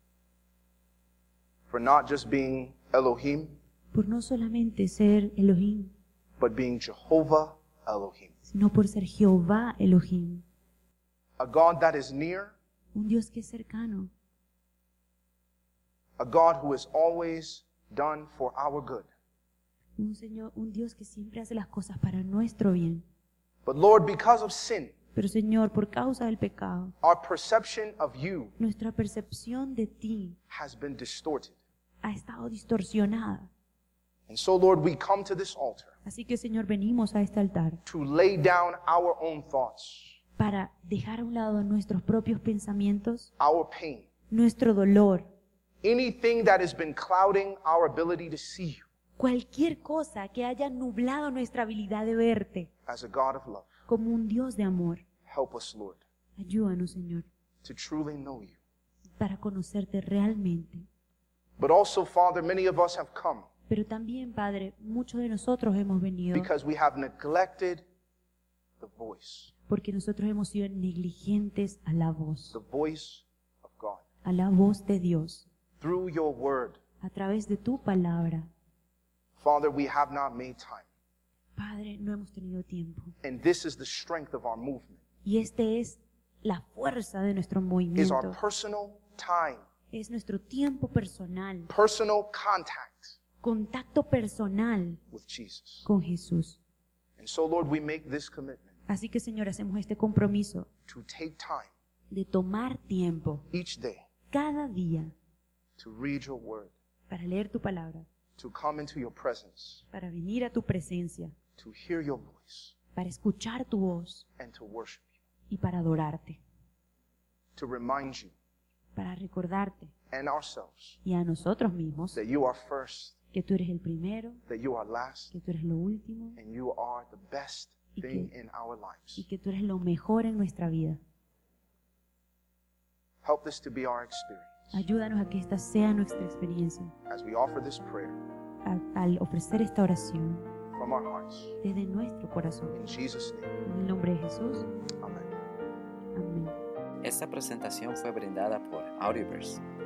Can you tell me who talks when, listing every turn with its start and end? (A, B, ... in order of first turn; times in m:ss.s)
0:01.7-0:03.6 A
0:03.9-0:05.9 B
0:06.4-0:08.3 A
0:08.5-0:10.4 B
0:11.4-0:12.6 A
0:12.9-0:14.1 B
0:16.2-0:19.1 A
0:20.0-0:23.0 B
0:23.7-0:24.9 A
0:25.2-0:26.9 B
0:27.0-0:28.5 A
0:28.6-0:30.4 B
0:30.5-0:31.6 A
0:32.0-0:33.5 B
0:34.3-0:35.9 A
0:36.0-0:37.8 B
0:37.8-0:40.2 A
0:40.4-0:43.3 B
0:43.4-0:44.1 A
0:44.3-0:45.3 B
0:45.8-0:48.9 A
0:49.2-0:52.7 B
0:52.9-0:53.7 A
0:53.9-0:55.0 B
0:55.3-0:56.0 A
0:56.4-0:57.3 B
0:57.6-0:58.6 A
0:59.2-1:00.9 B
1:01.6-1:03.5 A
1:03.7-1:06.5 B
1:06.3-1:07.8 A
1:08.8-1:09.5 A
1:09.7-1:12.6 B
1:12.5-1:14.0 A
1:14.2-1:15.5 B
1:15.8-1:16.8 A
1:17.0-1:18.5 B
1:19.4-1:20.9 A
1:21.6-1:23.1 B
1:23.2-1:25.0 A
1:25.2-1:28.4 B
1:28.0-1:29.6 A
1:29.9-1:31.7 B
1:31.7-1:33.2 A
1:33.4-1:35.0 B
1:35.1-1:35.9 A
1:35.8-1:36.6 B
1:37.2-1:38.8 A
1:38.9-1:40.7 B
1:40.9-1:41.7 A
1:42.1-1:43.5 B
1:43.5-1:44.1 A
1:44.3-1:45.2 B
1:45.8-1:46.7 A
1:47.1-1:48.1 B
1:48.4-1:49.8 A
1:49.9-1:51.4 B
1:51.6-1:52.8 A
1:53.0-1:54.2 B
1:54.4-1:55.0 A
1:55.5-1:56.4 B
1:57.6-1:58.3 A
1:59.0-1:59.9 B
2:00.1-2:01.0 A
2:01.0-2:02.2 B
2:02.1-2:03.2 A
2:03.3-2:04.4 B
2:04.5-2:05.3 A
2:05.3-2:06.4 B
2:06.4-2:09.2 A
2:08.0-2:08.3 B
2:09.2-2:11.0 B
2:13.2-2:14.8 A
2:14.7-2:16.9 B
2:17.1-2:18.2 A
2:18.6-2:20.4 B
2:20.8-2:21.6 A
2:21.6-2:22.8 B
2:22.7-2:23.5 A
2:23.6-2:24.7 B
2:25.0-2:25.3 A
2:26.2-2:26.6 B
2:27.0-2:29.6 C